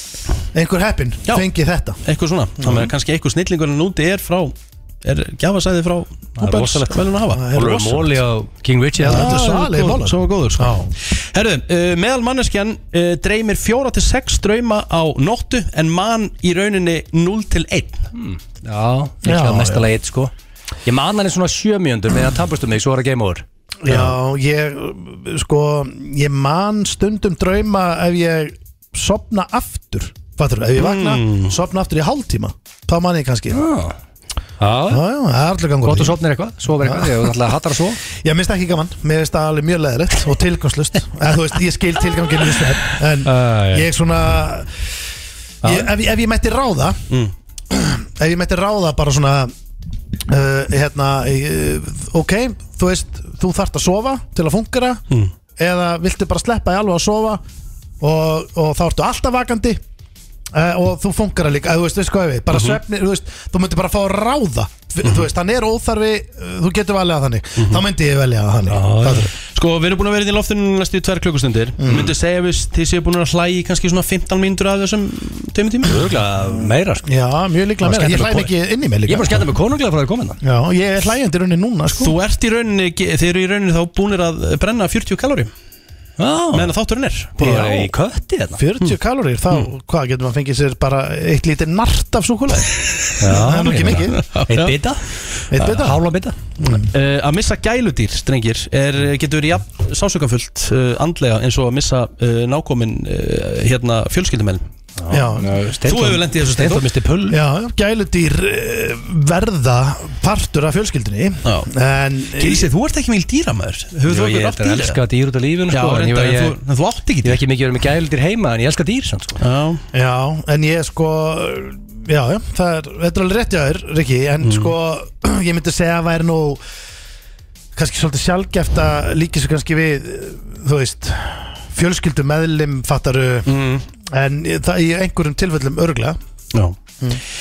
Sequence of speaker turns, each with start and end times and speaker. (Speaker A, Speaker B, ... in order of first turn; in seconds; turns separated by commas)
Speaker A: 0.5-2.0, Speaker B: 2.0-7.5, Speaker A: 2.6-2.9, Speaker C: 6.4-9.4, Speaker A: 7.3-8.2, Speaker A: 9.0-10.9, Speaker B: 9.1-18.1, Speaker C: 18.1-20.3, Speaker A: 19.2-19.9, Speaker C: 20.9-23.4, Speaker A: 23.8-33.6, Speaker B: 23.9-24.1, Speaker B: 30.8-31.6, Speaker C: 33.5-34.0, Speaker C: 34.6-35.0, Speaker A: 34.9-36.2, Speaker C: 35.8-38.0, Speaker A: 36.8-37.3, Speaker A: 38.1-44.8, Speaker C: 43.2-43.9, Speaker C: 45.6-45.9, Speaker A: 45.6-47.0, Speaker A: 47.7-49.5, Speaker A: 50.2-55.0, Speaker A: 55.6-57.4, Speaker A: 58.0-59.8, Speaker A: 60.5-69.3, Speaker B: 62.5-62.8, Speaker B: 67.6-67.8, Speaker C: 68.7-69.3, Speaker B: 69.4-76.1, Speaker A: 71.8-72.1, Speaker C: 75.8-77.1, Speaker A: 77.0-79.5, Speaker C: 77.8-78.5, Speaker C: 79.0-80.4, Speaker A: 80.4-82.2, Speaker B: 82.0-85.5, Speaker C: 86.2-86.7, Speaker B: 86.5-87.3, Speaker C: 87.4-88.6, Speaker A: 87.4-87.9, Speaker A: 88.6-94.2, Speaker C: 93.2-96.3, Speaker B: 93.7-94.8, Speaker A: 95.5-96.0, Speaker A: 96.6-96.9, Speaker B: 96.7-104.6, Speaker C: 105.0-107.4, Speaker A: 105.1-105.6, Speaker B: 105.8-106.9, Speaker A: 107.3-112.7, Speaker B: 111.5-111.7, Speaker B: 112.3-115.0, Speaker C: 114.1-116.6, Speaker B: 115.7-117.4, Speaker C: 117.2-119.4, Speaker B: 119.4-119.8, Speaker A: 119.9-126.6, Speaker B: 124.4-124.7, Speaker A: 127.8-136.2, Speaker B: 133.5-133.8